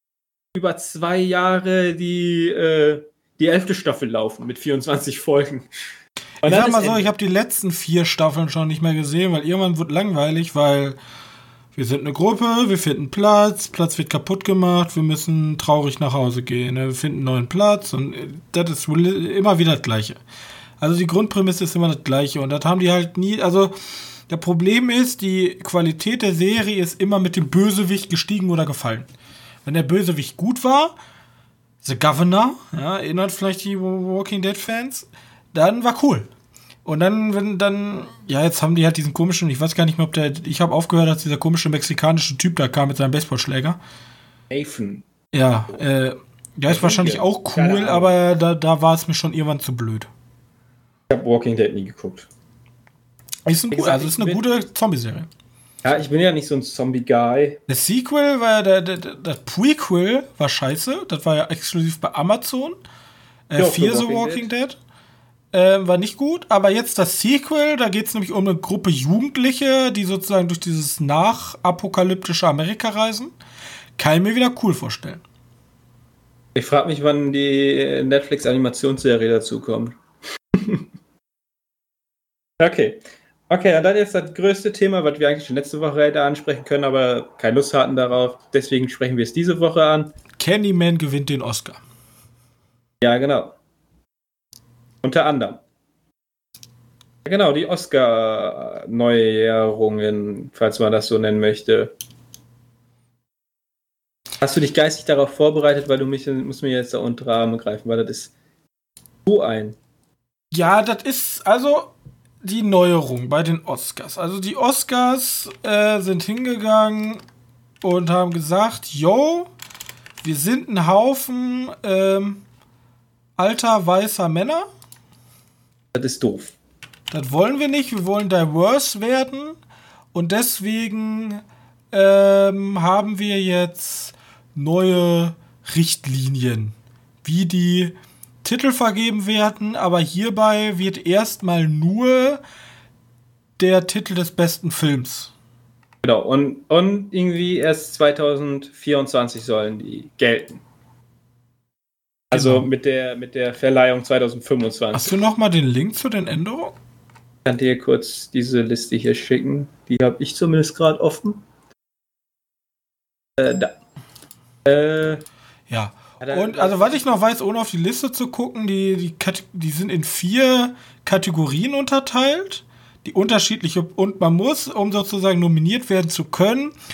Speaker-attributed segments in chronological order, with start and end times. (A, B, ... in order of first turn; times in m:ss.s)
0:00.5-0:05.7 A
0:06.4-0:11.0 B
0:06.4-0:07.1 A
0:11.7-0:20.2 B
0:20.8-0:23.7 B
0:24.3-0:29.1 B
0:29.6-0:30.9 B
0:31.8-0:36.3 B
0:36.8-0:43.8 B
0:44.5-0:45.0 A
0:45.3-0:50.1 B
0:46.7-0:48.1 A
0:51.1-0:52.3 A
0:53.4-0:55.3 B
0:53.7-0:54.6 A
0:55.8-0:57.6 A
0:57.7-1:02.8 B
1:03.5-1:04.8 B
1:03.6-1:04.5 A
1:05.5-1:13.3 B
1:14.0-1:15.2 B
1:16.5-1:20.0 A
1:20.5-1:20.9 A
1:22.6-1:30.1 A
1:30.4-1:31.8 B
1:33.0-1:33.6 A
1:35.0-1:35.6 A
1:37.2-1:41.9 A
1:44.4-1:48.3 A
1:49.2-1:49.8 A
1:50.5-1:57.2 B
1:57.8-1:59.5 B
2:00.2-2:02.4 B
2:03.4-2:04.6 B
2:05.9-2:06.5 A
2:07.1-2:09.6 B
2:10.1-2:22.4 B
2:23.6-2:25.3 B
2:26.0-2:30.6 A
2:32.3-2:35.1 A
2:32.3-2:32.7 B
2:34.9-2:36.7 B
2:37.4-2:41.4 A
2:43.4-2:43.7 A
2:44.6-2:45.2 A
2:45.7-2:56.7 B
2:46.2-2:47.2 A